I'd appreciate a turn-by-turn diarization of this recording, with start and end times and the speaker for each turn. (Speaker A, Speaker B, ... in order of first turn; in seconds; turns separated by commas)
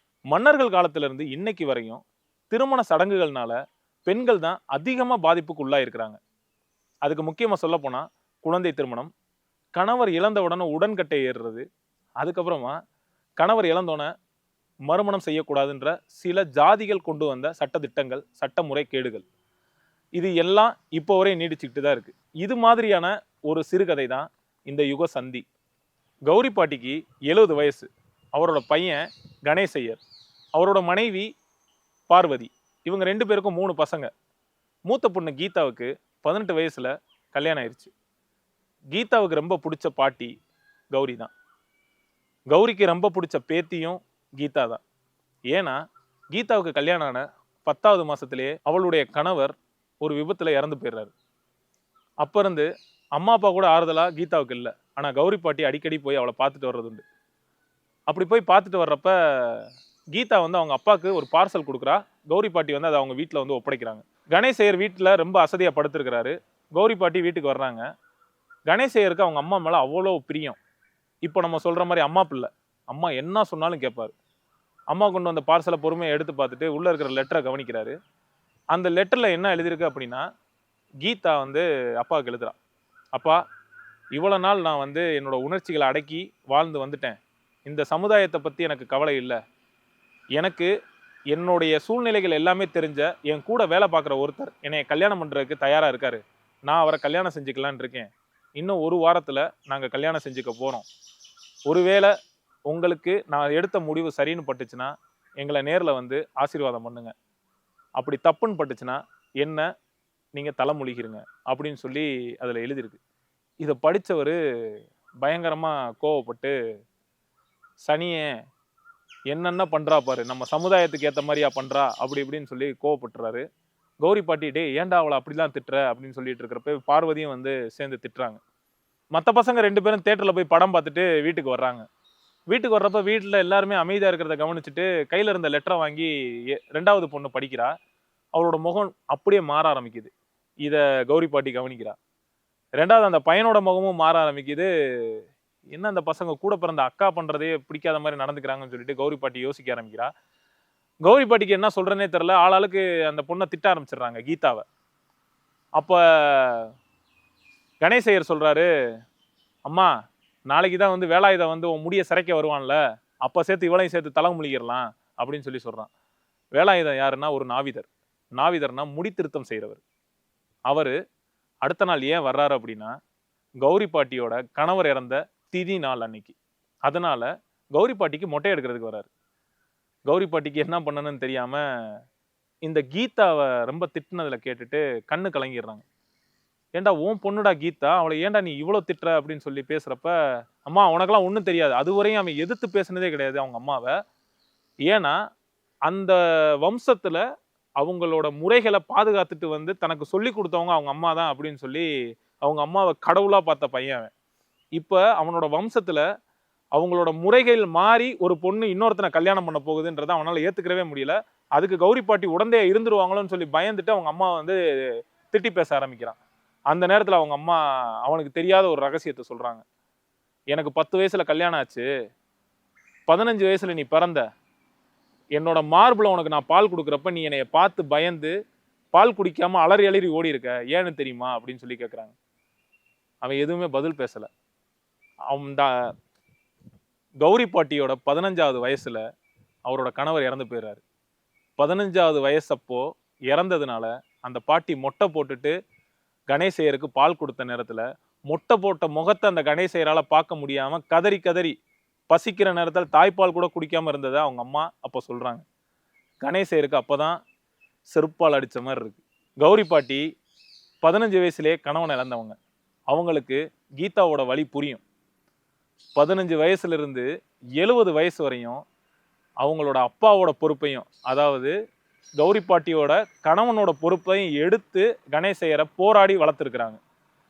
Speaker A: 0.3-6.2, Speaker A: 7.0-9.1, Speaker A: 9.8-11.6, Speaker A: 12.2-12.8, Speaker A: 13.4-14.1, Speaker A: 14.9-19.2, Speaker A: 20.2-25.4, Speaker A: 26.3-30.0, Speaker A: 30.6-31.3, Speaker A: 32.1-34.1, Speaker A: 34.9-37.9, Speaker A: 38.9-40.3, Speaker A: 40.9-41.3, Speaker A: 42.5-44.8, Speaker A: 45.5-45.8, Speaker A: 46.3-51.1, Speaker A: 52.2-57.0, Speaker A: 58.1-67.8, Speaker A: 68.7-70.6, Speaker A: 71.3-74.1, Speaker A: 74.9-77.9, Speaker A: 78.7-80.2, Speaker A: 81.0-82.6, Speaker A: 83.2-83.4, Speaker A: 84.2-87.2, Speaker A: 87.7-89.4, Speaker A: 90.4-90.7, Speaker A: 91.3-98.1, Speaker A: 98.6-100.8, Speaker A: 101.7-102.1, Speaker A: 102.7-107.1, Speaker A: 108.0-109.7, Speaker A: 110.3-113.0, Speaker A: 113.6-114.4, Speaker A: 115.2-116.5, Speaker A: 117.8-118.3, Speaker A: 119.3-123.4, Speaker A: 124.0-128.4, Speaker A: 129.1-131.8, Speaker A: 132.5-137.7, Speaker A: 138.4-140.1, Speaker A: 140.6-141.9, Speaker A: 142.8-145.2, Speaker A: 145.7-150.1, Speaker A: 151.1-154.6, Speaker A: 155.8-156.7, Speaker A: 157.8-158.7, Speaker A: 160.5-165.9, Speaker A: 166.6-167.9, Speaker A: 168.4-169.8, Speaker A: 171.7-172.9, Speaker A: 173.6-179.1, Speaker A: 180.1-181.6, Speaker A: 182.7-185.8, Speaker A: 186.8-190.1, Speaker A: 190.7-193.9, Speaker A: 194.9-195.2, Speaker A: 195.9-197.2, Speaker A: 197.8-201.9, Speaker A: 202.4-204.1, Speaker A: 204.8-206.0, Speaker A: 206.8-214.6, Speaker A: 215.3-216.2, Speaker A: 216.7-219.6, Speaker A: 220.5-221.8, Speaker A: 223.1-224.2, Speaker A: 225.4-228.3, Speaker A: 228.9-232.1, Speaker A: 233.2-234.3, Speaker A: 235.3-235.8, Speaker A: 237.2-239.0, Speaker A: 239.7-240.8, Speaker A: 241.6-245.5, Speaker A: 246.3-251.5, Speaker A: 252.1-255.4, Speaker A: 256.2-257.2, Speaker A: 257.9-260.0, Speaker A: 260.8-262.4, Speaker A: 262.9-264.8, Speaker A: 266.0-267.1, Speaker A: 267.6-268.6, Speaker A: 269.4-271.5, Speaker A: 272.2-276.8